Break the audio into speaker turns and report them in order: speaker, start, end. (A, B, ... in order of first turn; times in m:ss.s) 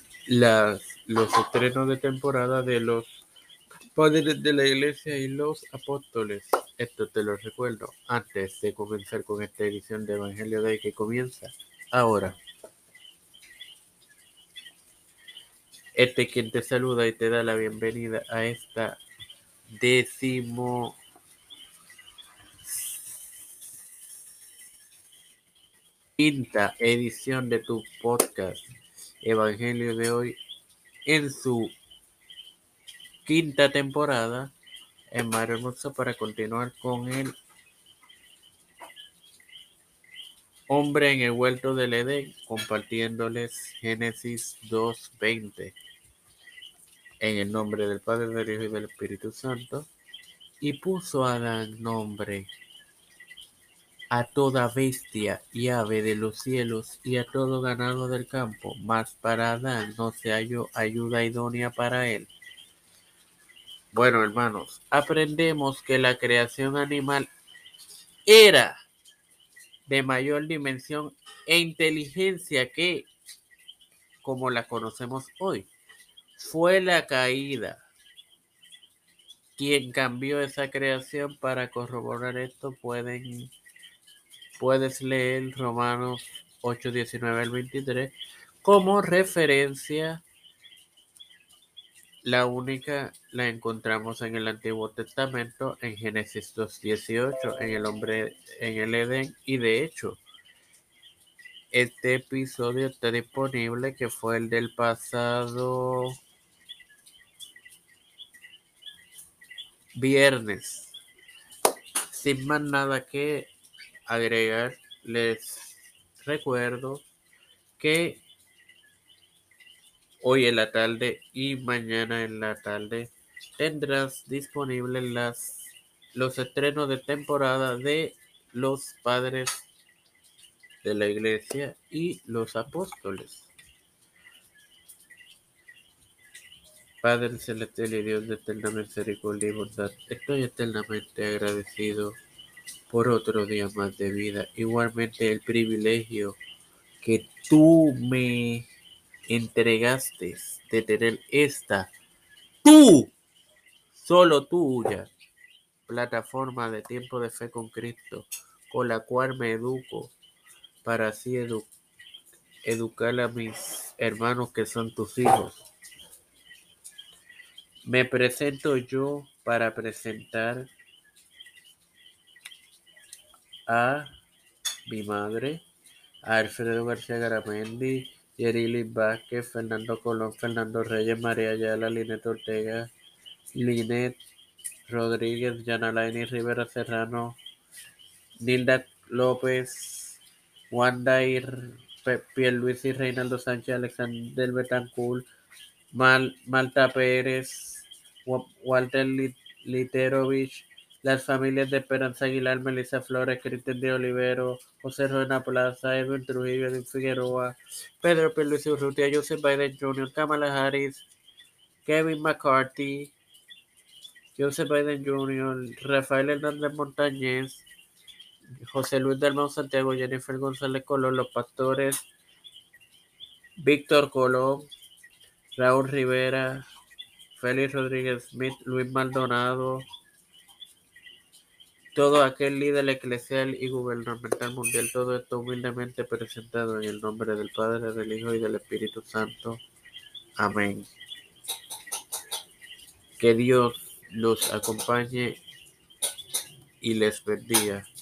0:00.3-0:03.2 A
0:04.0-0:12.4 A
0:16.0-0:19.0 A
0:19.8-0:21.0 A
0:22.6-0:23.1 A
0:26.2-0:28.6 A
0:29.2-0:30.4 A
0:31.1-0:31.7 A
0:33.2-0:34.5 A
0:35.1-0:37.3 A
0:40.7-0:45.8 A
0:47.2-0:49.9 A
0:50.6-0:52.5 A
0:54.1-1:02.3 A
1:03.9-1:07.3 A
1:08.3-1:08.8 A
1:09.9-1:13.1 A
1:14.2-1:15.7 A
1:16.4-1:17.8 A
1:19.6-1:23.5 A
1:24.6-1:30.2 A
1:32.2-1:40.2 A
1:41.7-1:46.1 A
1:50.0-1:51.0 A
1:52.1-1:53.5 A
1:54.1-1:57.0 A
1:57.8-1:58.2 A
2:00.2-2:09.6 A
2:10.8-2:13.5 A
2:17.0-2:22.2 A
2:22.9-2:26.4 A
2:27.0-2:28.7 A
2:29.3-2:31.9 A
2:32.6-2:33.1 A
2:33.9-2:35.1 A
2:35.9-2:40.1 A
2:40.8-2:41.7 A
2:42.6-2:45.7 A
2:47.9-2:50.7 A
2:53.7-2:54.1 A
2:54.9-2:55.6 A
2:56.2-3:02.9 A
3:03.6-3:04.2 A
3:04.9-3:07.4 A
3:08.4-3:10.2 A
3:10.7-3:15.2 A
3:16.0-3:31.0 A
3:31.8-3:33.1 A
3:34.4-3:37.7 A
3:38.6-3:42.1 A
3:43.6-3:44.7 A
3:45.6-3:46.6 A
3:47.4-3:49.8 A
3:52.0-3:59.6 A
4:00.4-4:00.9 A
4:03.2-4:05.4 A
4:06.8-4:07.8 A